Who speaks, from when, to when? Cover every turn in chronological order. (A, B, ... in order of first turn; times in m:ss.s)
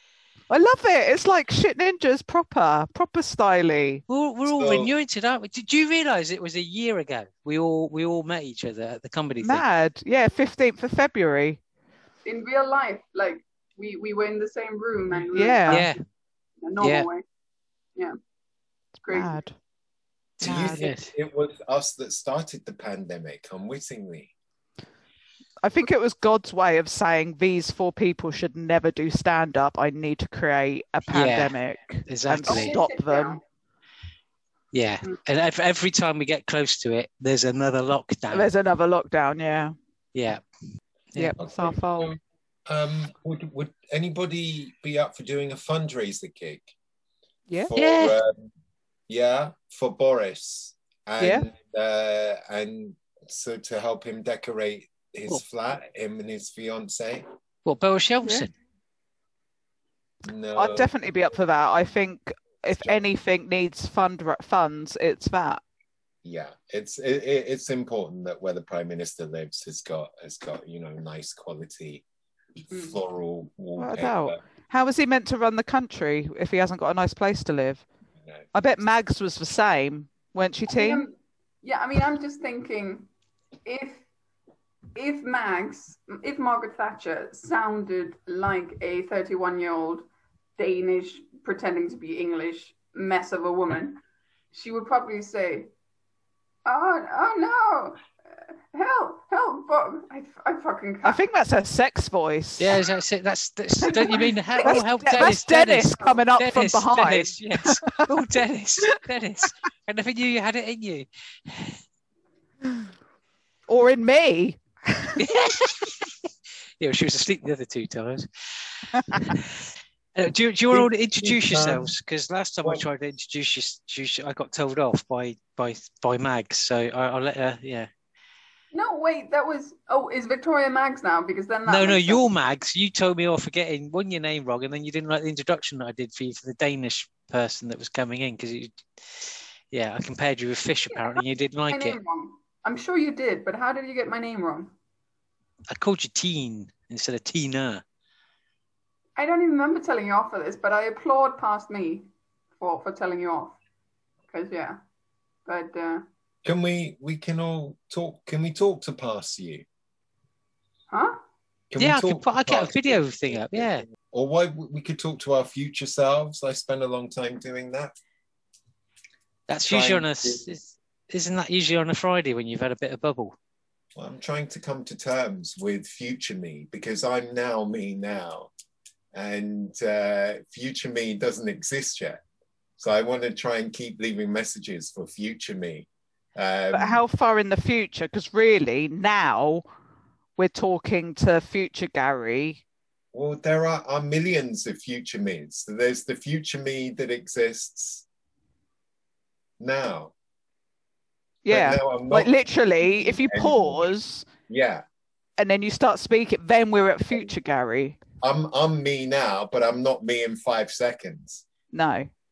0:00.5-0:04.0 A
0:04.1-0:09.6 B
0:04.5-0:04.9 C
0:09.4-0:11.6 A
0:12.2-0:16.0 D
0:15.3-0:15.9 A
0:15.7-0:16.0 B
0:16.6-0:17.2 D
0:16.8-0:17.1 B
0:19.0-0:19.4 D
0:19.1-0:19.6 A
0:20.4-0:24.3 C
0:20.4-0:20.8 A
0:20.4-0:21.1 B
0:25.6-0:33.4 A
0:31.1-0:31.6 B
0:32.1-0:32.8 B
0:32.4-0:33.4 D
0:34.7-0:38.5 B
0:38.3-0:39.7 A
0:40.2-0:40.4 B
0:41.2-0:42.2 A
0:41.4-0:46.7 C
0:47.7-0:48.5 C
0:47.8-0:48.2 B
0:49.1-0:57.2 C
0:51.2-0:51.5 A
0:57.6-0:58.5 B
1:00.2-1:00.9 C
1:00.6-1:05.6 A
1:06.2-1:12.0 C
1:12.6-1:14.4 C
1:12.7-1:13.0 D
1:13.8-1:17.8 A
1:18.5-1:21.0 A
1:20.7-1:23.1 D
1:23.6-1:24.0 D
1:25.0-1:30.1 D
1:30.6-1:35.7 D
1:36.7-1:38.1 D
1:38.7-1:41.2 D
1:41.0-1:42.8 A
1:42.6-1:51.8 B
1:43.8-1:48.1 A
1:43.8-1:44.8 D
1:53.7-1:55.3 A
1:55.2-1:56.1 B
1:56.8-1:58.3 B
1:59.1-1:59.6 B
2:00.2-2:07.9 B
2:00.7-2:01.9 C
2:08.7-2:12.3 D
2:11.7-2:22.0 B
2:21.7-2:24.7 D
2:25.7-2:27.8 B
2:29.2-2:33.6 D
2:34.3-2:34.8 D
2:35.5-2:36.1 D
2:36.4-2:39.6 C
2:40.9-2:41.2 D
2:41.7-2:48.0 C
2:41.8-2:43.8 B
2:49.5-2:53.4 B
2:49.7-2:50.7 C
2:54.0-2:58.5 C
2:59.1-3:02.2 C
3:02.8-3:07.0 C
3:06.7-3:09.6 A
3:10.4-3:12.6 A
3:13.1-3:18.0 C
3:19.6-3:20.1 C
3:21.4-3:24.3 A
3:21.5-3:23.9 C
3:24.5-3:24.8 C
3:25.4-3:28.0 A
3:28.2-3:31.4 C
3:31.7-3:32.1 A